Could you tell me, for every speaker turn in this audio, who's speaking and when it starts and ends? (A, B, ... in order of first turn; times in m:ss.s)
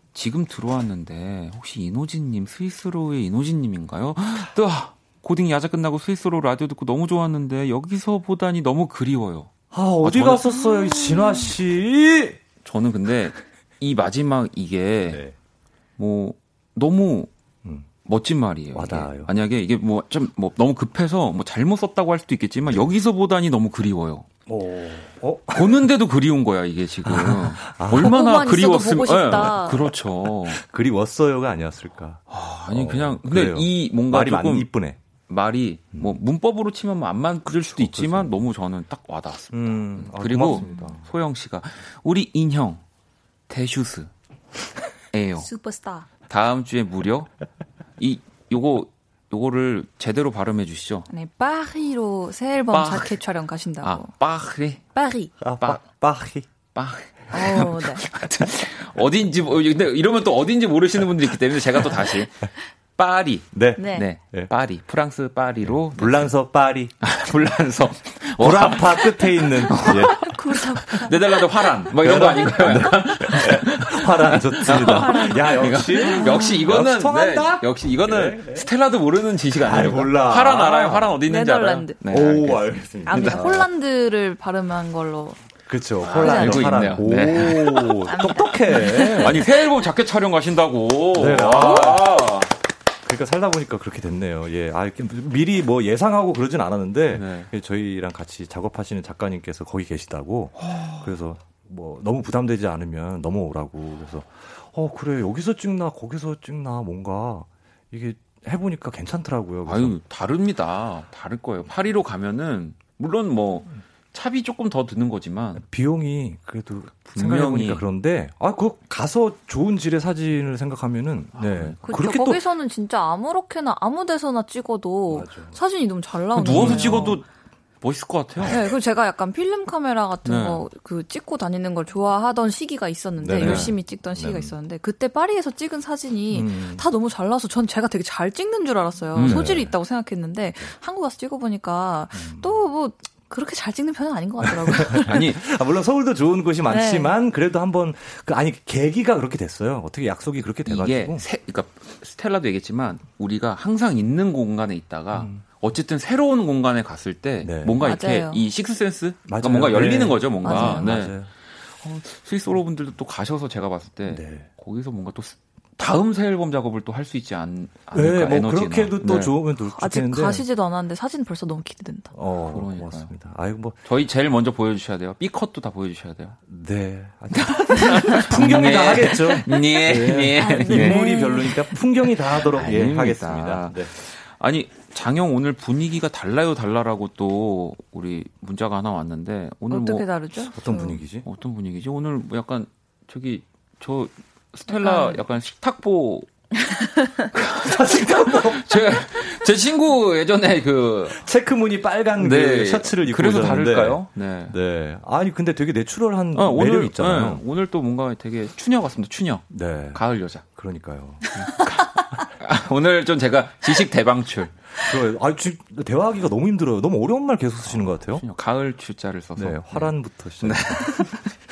0:00.1-0:10.8 A
0:09.7-0:12.4 B
0:11.0-0:11.4 C
0:12.6-0:15.2 A
0:15.0-0:15.3 B
0:16.0-0:17.3 A
0:17.6-0:17.9 B
0:18.0-0:24.3 A
0:18.7-0:19.3 B
0:24.4-0:25.9 B
0:25.5-0:30.6 A
0:27.0-0:28.2 B
0:28.0-0:29.9 C
0:30.5-0:35.0 B
0:32.3-0:34.7 A
0:35.3-0:42.8 A
0:37.4-0:38.4 B
0:39.5-0:41.0 B
0:40.5-0:41.0 C
0:43.5-0:44.1 A
0:45.1-0:45.5 A
0:45.4-0:46.1 C
0:46.3-0:47.3 A
0:48.0-0:51.1 A
0:51.1-0:54.1 C
0:52.7-0:53.2 A
0:53.8-0:54.8 A
0:54.9-0:55.3 C
0:55.4-0:56.4 B
0:56.7-1:06.3 A
0:57.3-0:58.0 C
1:03.5-1:04.5 B
1:03.8-1:04.1 C
1:05.6-1:06.9 B
1:07.0-1:23.5 A
1:08.4-1:10.3 B
1:09.7-1:11.2 C
1:11.9-1:18.7 B
1:14.7-1:16.5 C
1:19.6-1:21.2 B
1:21.2-1:22.1 C
1:22.0-1:23.7 B
1:23.1-1:25.5 C
1:25.6-1:29.4 B
1:26.0-1:32.5 A
1:26.1-1:26.9 C
1:28.1-1:29.3 C
1:31.1-1:32.1 B
1:33.0-1:50.0 B
1:37.1-1:37.5 A
1:40.6-1:41.1 A
1:49.6-1:55.6 A
1:55.5-2:02.4 B
1:57.1-1:57.8 A
2:01.3-2:01.8 A
2:01.8-2:07.2 C
2:05.1-2:05.6 B
2:06.3-2:07.2 A
2:06.4-2:07.2 B
2:07.8-2:08.6 A
2:08.4-2:25.2 C
2:10.2-2:10.6 A
2:13.2-2:14.6 B
2:13.3-2:13.7 A
2:16.3-2:16.8 B
2:19.1-2:19.6 A
2:19.2-2:19.8 B
2:22.1-2:22.6 B
2:24.5-2:31.2 B
2:25.0-2:25.4 A
2:26.7-2:27.2 C
2:30.6-2:49.4 A
2:35.1-2:35.4 B
2:37.4-2:37.8 B
2:37.8-2:38.5 C
2:39.2-2:41.3 B
2:40.4-2:41.0 C
2:44.1-2:44.5 B
2:47.9-2:50.4 B
2:49.7-2:52.2 C
2:52.1-2:53.8 B
2:52.5-2:53.1 A
2:53.8-2:56.4 A
2:56.4-3:03.9 B
2:57.3-3:10.6 A
3:00.4-3:01.7 C
3:09.7-3:11.0 C
3:10.5-3:11.2 B
3:11.2-3:16.3 A
3:14.7-3:15.2 C
3:16.7-3:17.2 C
3:17.3-3:21.2 A
3:17.6-3:18.7 B
3:21.1-3:27.4 B
3:22.2-3:24.6 A
3:26.3-3:30.4 A
3:29.5-3:31.3 B
3:31.3-3:34.7 A
3:34.8-3:38.2 B
3:37.6-3:41.4 A
3:39.4-3:41.0 B